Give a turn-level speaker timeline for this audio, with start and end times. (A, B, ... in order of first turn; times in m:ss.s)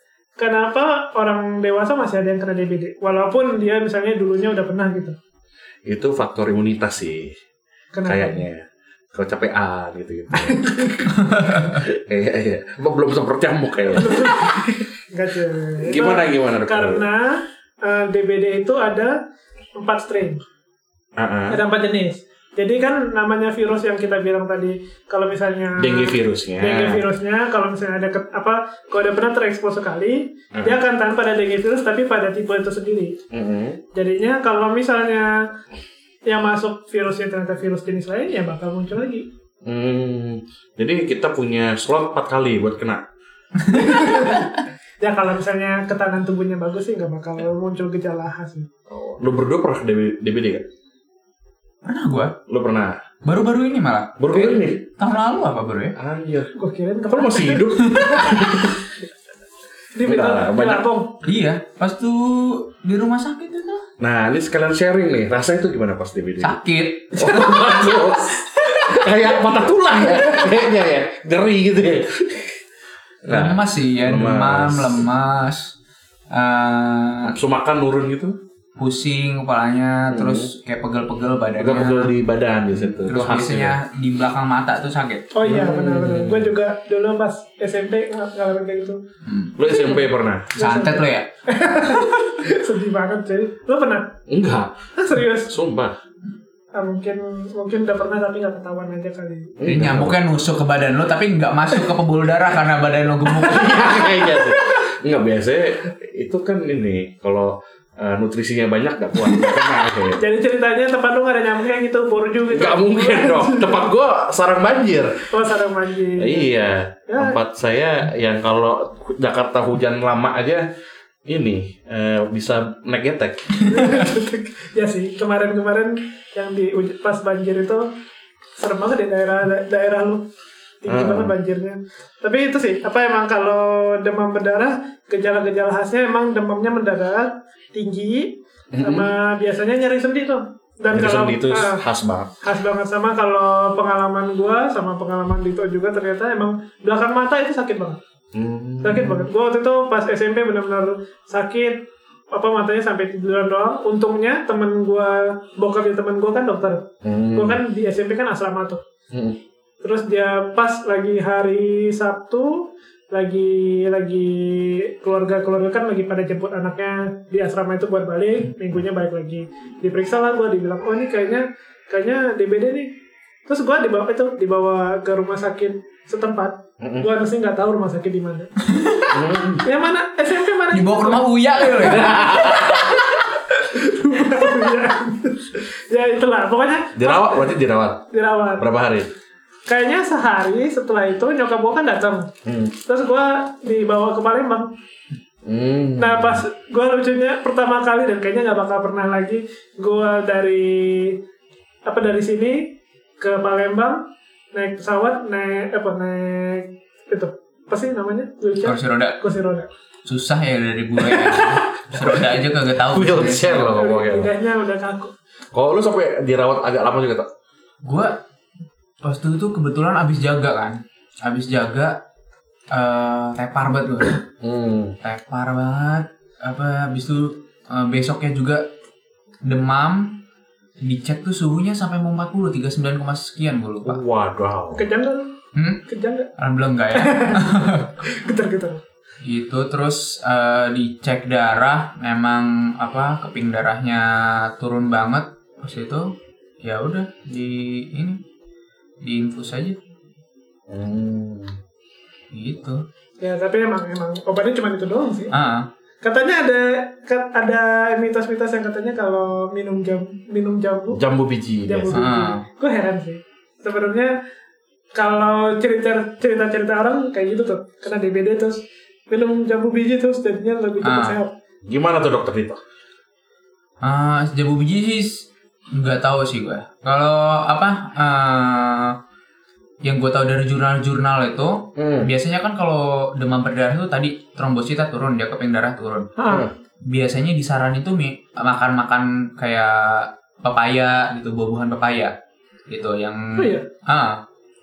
0:00.4-0:05.2 A
0:05.9-0:07.4 B
0:07.9-0:08.4 A
0:08.0-0:14.7 B
0:10.4-0:11.0 A
0:11.2-0:11.8 C
0:13.9-0:19.2 A
0:15.8-0:17.0 B
0:19.8-0:20.4 A
0:21.2-0:21.6 B
0:21.5-0:33.2 A
0:25.8-0:27.0 B
0:30.5-0:30.8 B
0:33.3-0:33.8 B
0:33.9-0:35.5 A
0:36.2-0:39.3 A
0:39.6-0:43.0 B
0:43.6-0:44.3 C
0:43.7-0:48.7 A
0:48.9-0:50.6 B
0:51.8-0:52.4 C
0:52.5-0:53.1 B
0:53.2-0:56.0 C
0:54.2-0:54.8 B
0:56.0-0:56.5 B
0:56.5-0:58.4 A
0:57.1-0:58.8 B
0:57.9-0:58.3 C
0:59.9-1:01.2 A
1:00.0-1:00.9 B
1:01.2-1:03.8 C
1:04.0-1:06.6 B
1:06.4-1:07.4 C
1:07.1-1:12.6 B
1:07.2-1:08.0 A
1:10.1-1:10.4 A
1:13.2-1:15.0 B
1:13.3-1:15.7 C
1:16.3-1:17.4 C
1:17.2-1:18.4 B
1:18.8-1:22.1 C
1:20.1-1:20.5 B
1:21.6-1:23.8 B
1:22.7-1:25.3 C
1:25.3-1:29.0 A
1:25.4-1:26.5 B
1:29.2-1:29.6 C
1:29.6-1:30.5 B
1:29.6-1:34.2 A
1:30.5-1:31.3 C
1:34.3-1:34.7 B
1:35.0-1:35.5 A
1:35.4-1:36.0 B
1:36.7-1:39.6 A
1:39.6-1:40.2 B
1:39.6-1:44.2 C
1:43.3-1:50.2 B
1:50.2-1:53.9 A
1:52.5-1:55.3 B
1:55.3-1:56.5 A
1:56.2-2:00.6 B
1:57.1-1:57.4 A
2:01.3-2:03.6 B
2:03.6-2:07.9 A
2:08.6-2:10.3 A
2:10.8-2:21.8 A
2:10.9-2:11.3 B
2:18.7-2:19.1 B
2:20.9-2:22.3 B
2:22.4-2:28.0 A
2:28.3-2:29.3 B
2:28.8-2:38.8 A
2:37.0-2:37.6 B
2:39.1-2:39.4 B
2:39.8-2:58.7 A
2:56.8-2:57.1 B
2:58.8-2:59.1 C
2:59.1-2:59.6 B
2:59.6-3:07.6 A
3:00.7-3:03.0 C
3:01.7-3:03.0 B
3:07.0-3:08.1 B
3:08.1-3:08.6 A
3:08.6-3:09.1 B
3:09.7-3:14.7 A
3:12.4-3:12.7 B
3:15.4-3:16.4 B
3:16.0-3:21.2 A
3:21.9-3:29.7 A
3:28.6-3:29.2 C
3:30.0-3:33.8 C
3:31.0-3:34.3 B
3:33.7-3:35.1 A
3:35.5-3:37.3 B
3:37.8-3:38.2 C
3:39.0-3:42.0 C
3:42.7-3:44.2 C
3:44.4-3:45.0 B
3:45.0-3:48.6 C
3:49.4-3:50.2 C
3:50.8-3:54.0 C
3:53.8-3:54.8 B
3:54.7-3:55.3 A
3:55.5-3:55.8 C
3:55.9-3:56.3 A
3:56.4-3:57.9 C
3:56.9-3:58.8 A
3:59.2-4:08.2 C
4:09.0-4:09.8 C
4:10.7-4:11.6 B
4:12.3-4:12.8 C
4:13.2-4:15.3 A
4:15.3-4:15.7 C
4:16.0-4:21.0 A
4:20.9-4:22.0 B
4:21.6-4:24.1 A
4:21.9-4:22.4 C
4:25.0-4:31.3 A
4:30.8-4:31.2 C
4:31.6-4:32.6 B
4:33.8-4:39.0 C
4:39.8-4:46.1 C
4:41.8-4:42.1 B
4:46.2-4:46.5 A
4:46.9-4:52.1 C
4:52.7-4:54.2 C
4:53.4-4:53.7 A